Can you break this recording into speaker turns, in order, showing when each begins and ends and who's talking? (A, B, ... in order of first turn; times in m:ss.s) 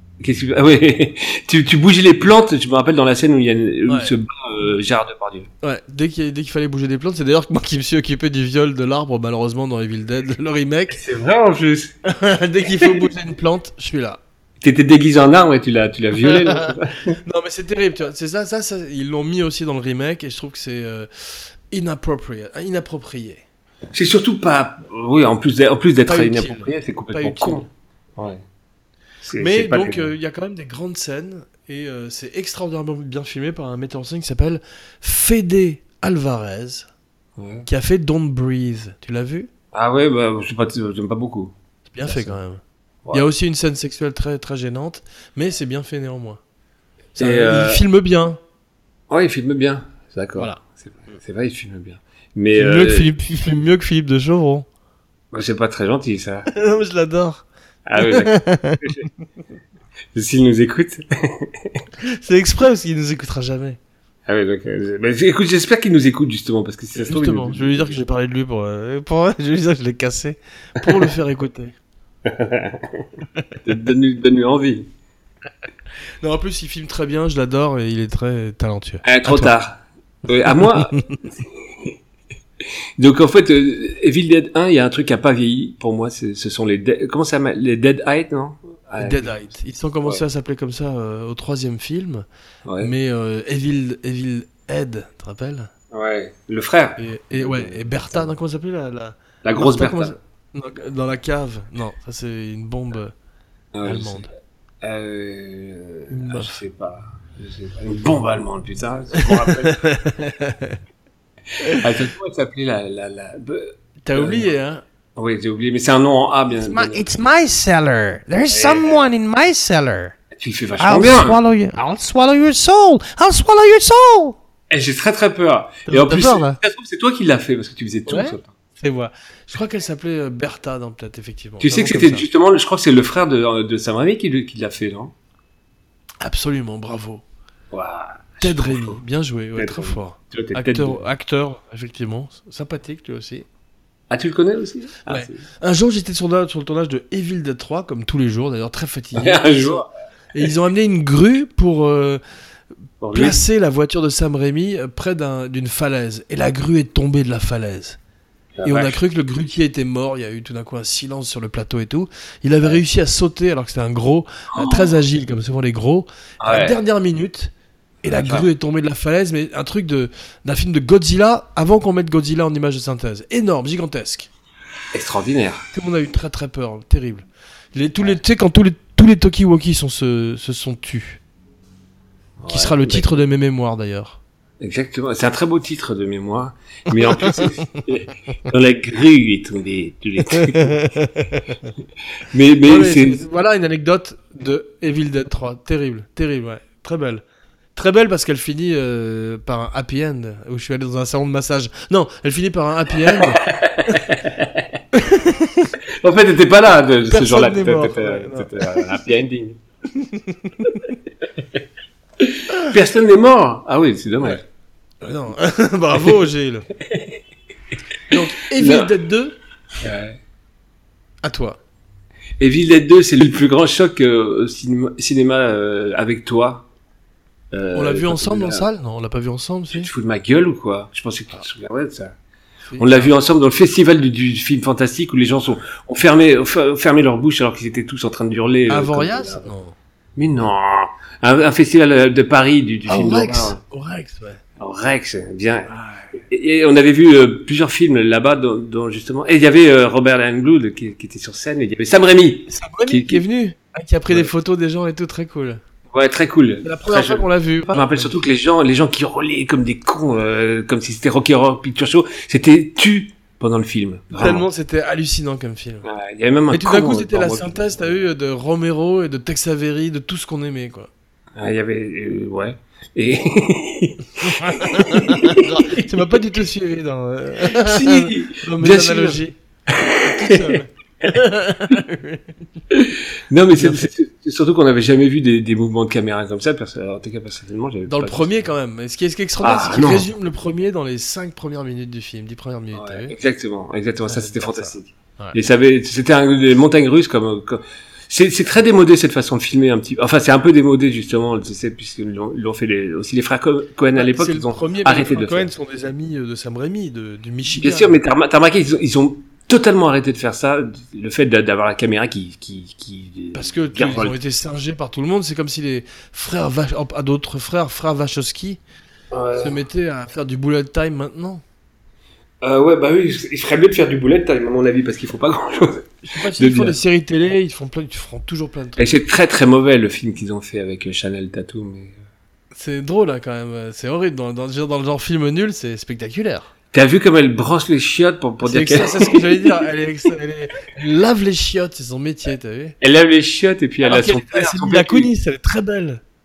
0:00.2-0:05.5 A
0:03.9-0:04.1 B
0:05.6-0:11.0 B
0:10.9-0:12.0 A
0:12.0-0:14.2 B
0:14.6-0:17.2 A
0:16.2-0:23.4 B
0:23.9-0:28.4 A
0:26.0-0:27.7 B
0:29.2-0:30.1 A
0:29.4-0:36.9 B
0:37.4-0:37.7 A
0:37.7-0:39.5 B
0:39.7-0:41.5 A
0:41.9-0:46.4 B
0:42.0-0:42.4 A
0:47.2-0:48.4 B
0:47.2-0:47.8 A
0:49.1-0:53.1 A
0:52.6-0:54.7 B
0:55.3-0:56.5 A
0:56.5-0:57.4 B
0:57.9-0:59.0 A
0:58.0-0:59.1 B
1:00.1-1:01.8 A
1:02.0-1:03.8 B
1:04.3-1:08.0 A
1:06.9-1:11.8 B
1:12.2-1:13.0 A
1:13.6-1:14.9 A
1:16.2-1:19.5 B
1:19.0-1:21.9 A
1:20.6-1:21.2 B
1:23.0-1:29.3 A
1:29.0-1:32.2 B
1:32.6-1:32.9 A
1:32.8-1:35.7 B
1:35.9-1:38.3 A
1:37.0-1:43.1 B
1:39.4-1:40.2 A
1:43.7-1:44.3 A
1:43.8-1:44.3 B
1:44.8-1:49.8 A
1:46.1-1:46.6 B
1:49.2-1:50.8 B
1:51.6-1:51.8 B
1:51.6-1:54.5 A
1:54.0-1:54.8 B
1:55.2-1:57.2 A
1:56.6-2:00.2 C
1:58.5-1:59.1 A
2:00.3-2:01.4 A
2:00.8-2:04.4 C
2:04.7-2:08.5 A
2:05.9-2:06.6 B
2:08.1-2:12.3 B
2:11.6-2:15.1 A
2:16.2-2:17.2 B
2:17.7-2:19.0 A
2:18.4-2:23.5 B
2:19.6-2:21.0 A
2:24.1-2:25.4 A
2:25.1-2:32.2 B
2:29.2-2:29.9 A
2:33.0-2:33.4 A
2:33.1-2:38.0 B
2:38.6-2:39.0 A
2:38.6-2:47.5 B
2:44.5-2:45.0 A
2:46.4-2:46.8 A
2:48.0-2:54.3 B
2:48.2-2:48.5 A
2:54.9-2:55.6 A
2:55.7-3:01.2 B
3:02.4-3:03.1 A
3:02.5-3:04.2 B
3:04.6-3:10.8 A
3:06.9-3:07.8 B
3:10.3-3:11.6 B
3:12.3-3:13.2 A
3:12.6-3:17.2 B
3:17.8-3:24.0 B
3:23.1-3:24.8 A
3:24.9-3:25.7 B
3:26.0-3:29.6 A
3:27.1-3:28.9 B
3:30.0-3:31.0 B
3:32.2-3:34.4 A
3:35.0-3:36.7 B
3:36.9-3:37.2 A
3:38.1-3:39.4 B
3:38.6-3:38.9 A
3:39.8-3:40.2 A
3:41.2-3:41.6 B
3:42.4-3:46.7 A
3:47.5-3:48.6 A
3:47.8-3:49.9 B
3:49.7-3:52.2 A
3:52.7-3:53.1 B
3:52.8-3:59.5 A
3:58.7-3:59.8 B
4:00.2-4:03.6 A
4:02.9-4:04.4 B
4:04.6-4:13.2 A
4:05.7-4:06.1 B
4:12.5-4:15.6 B
4:15.9-4:24.4 A
4:16.6-4:18.3 B
4:24.2-4:25.9 B
4:25.8-4:27.8 A
4:26.5-4:30.9 B
4:31.4-4:35.9 A
4:34.2-4:42.3 B
4:37.4-4:40.6 A
4:42.7-4:48.4 A
4:43.5-4:43.9 B
4:47.9-4:53.2 B
4:49.4-4:50.1 A
4:52.7-5:05.5 A
4:54.0-4:55.4 B
5:04.0-5:08.0 B
5:07.5-5:14.2 A
5:13.3-5:18.6 B
5:19.1-5:19.6 A
5:19.4-5:21.4 B
5:22.4-5:26.8 A
5:26.0-5:28.9 B
5:28.8-5:32.0 A
5:32.5-5:36.5 B
5:36.7-5:39.5 A
5:38.4-5:42.8 B
5:42.8-5:45.1 A
5:43.8-5:46.0 B